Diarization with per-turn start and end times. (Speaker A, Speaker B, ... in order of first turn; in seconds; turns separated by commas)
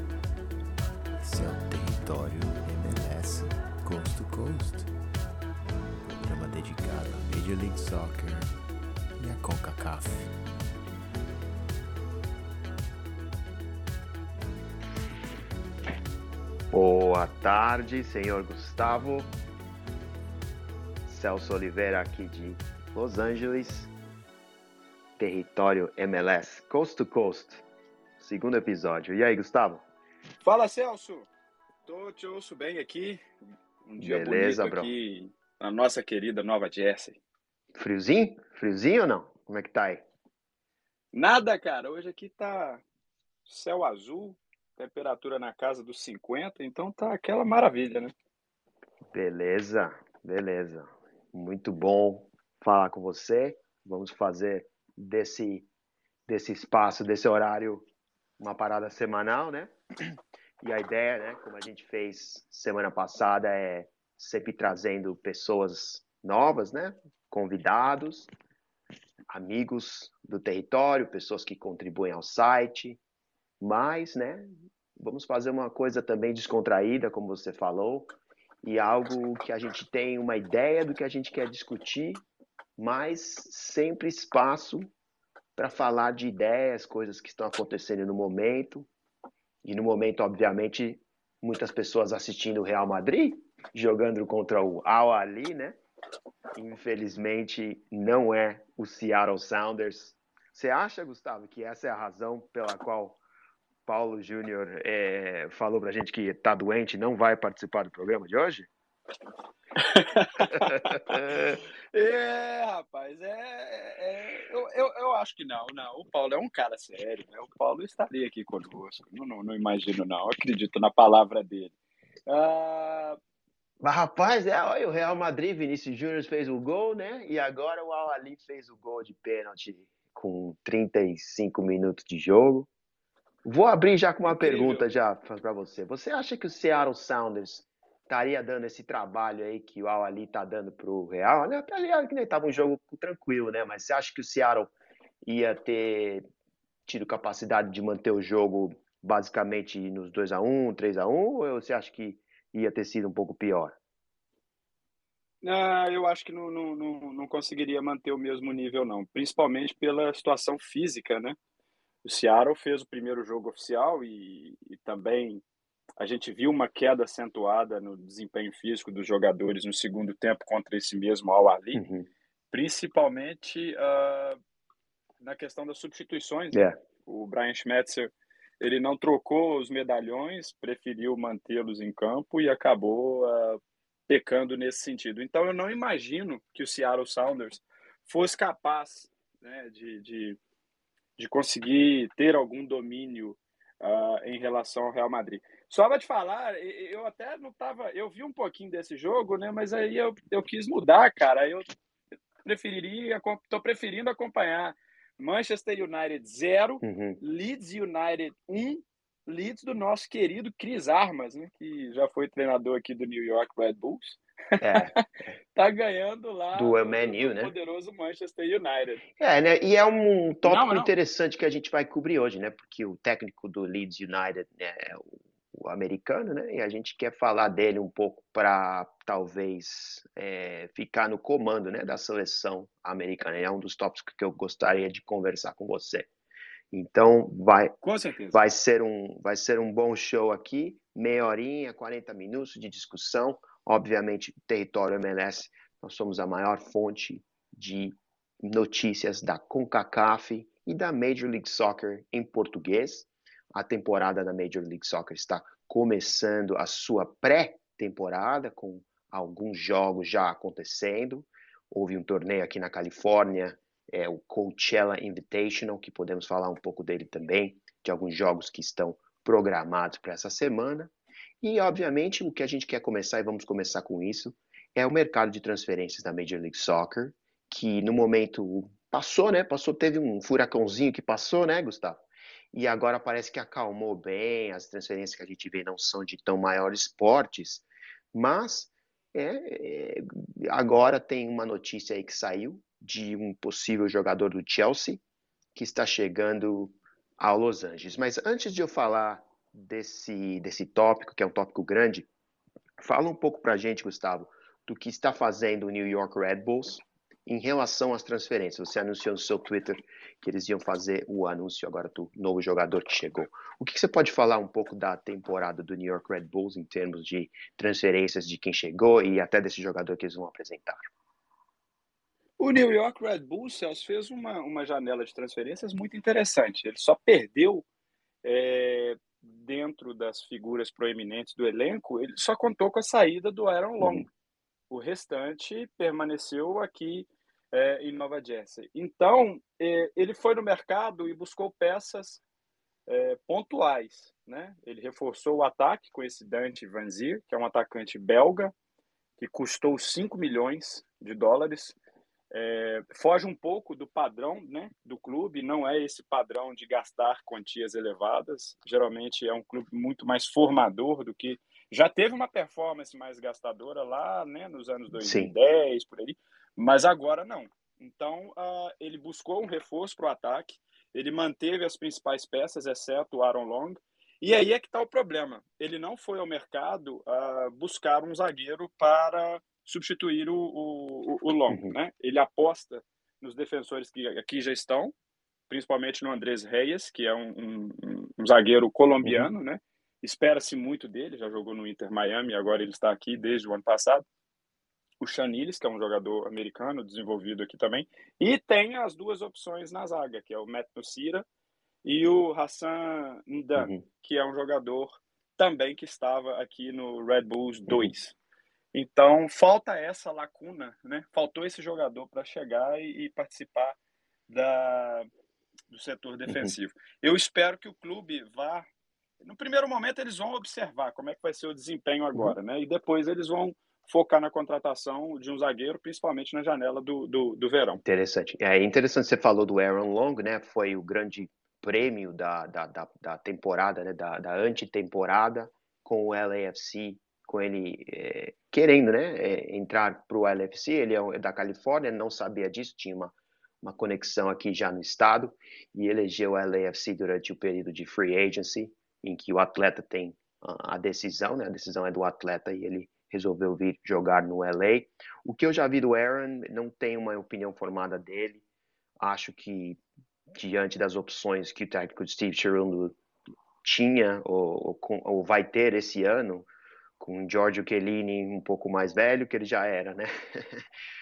Speaker A: 1.2-4.9, Speaker A: 6.0-8.5, Speaker A: 9.2-10.3, Speaker B: 16.7-19.3, Speaker B: 21.1-23.9, Speaker B: 25.2-27.6, Speaker B: 28.2-29.8, Speaker C: 30.4-31.3, Speaker C: 31.9-33.2, Speaker C: 33.9-37.2, Speaker B: 34.0-34.9, Speaker B: 37.7-40.0, Speaker C: 41.1-42.8, Speaker C: 43.5-48.1, Speaker B: 49.1-55.7, Speaker B: 56.3-57.8, Speaker B: 58.4-68.3, Speaker B: 69.3-73.0, Speaker B: 73.6-82.2, Speaker B: 82.8-84.9, Speaker B: 85.5-88.9, Speaker B: 89.6-95.8, Speaker B: 96.5-103.2, Speaker B: 103.8-108.7, Speaker C: 109.8-111.2, Speaker B: 110.4-111.6, Speaker C: 111.9-121.7, Speaker C: 122.3-123.2, Speaker B: 123.8-132.7, Speaker B: 133.4-146.2, Speaker C: 134.2-134.8, Speaker B: 146.8-153.8, Speaker C: 155.4-161.4, Speaker C: 162.0-165.4, Speaker C: 166.0-171.8, Speaker B: 171.7-172.1, Speaker C: 172.5-174.4, Speaker C: 175.2-190.4, Speaker C: 191.2-201.7, Speaker C: 202.4-215.0, Speaker B: 206.8-207.2, Speaker B: 214.6-215.3, Speaker C: 215.5-219.0, Speaker B: 216.5-217.5, Speaker B: 219.2-236.1, Speaker C: 220.4-220.9, Speaker B: 236.7-237.7, Speaker C: 237.8-238.4, Speaker B: 238.3-295.0, Speaker B: 295.5-302.1, Speaker B: 302.8-320.9, Speaker C: 322.4-327.6, Speaker C: 328.2-334.1, Speaker C: 334.7-342.2, Speaker C: 342.9-348.5, Speaker C: 349.2-351.8, Speaker C: 352.3-384.9, Speaker B: 364.9-365.3, Speaker B: 381.5-381.7, Speaker C: 385.5-394.0, Speaker C: 395.0-401.2, Speaker C: 401.8-408.1, Speaker B: 403.6-403.8, Speaker C: 408.7-413.8, Speaker C: 414.3-415.1, Speaker C: 415.7-418.6, Speaker B: 416.3-416.5, Speaker C: 419.2-427.8, Speaker B: 427.8-458.4, Speaker B: 459.0-459.8, Speaker B: 460.3-462.9, Speaker B: 463.6-466.5, Speaker B: 467.0-470.6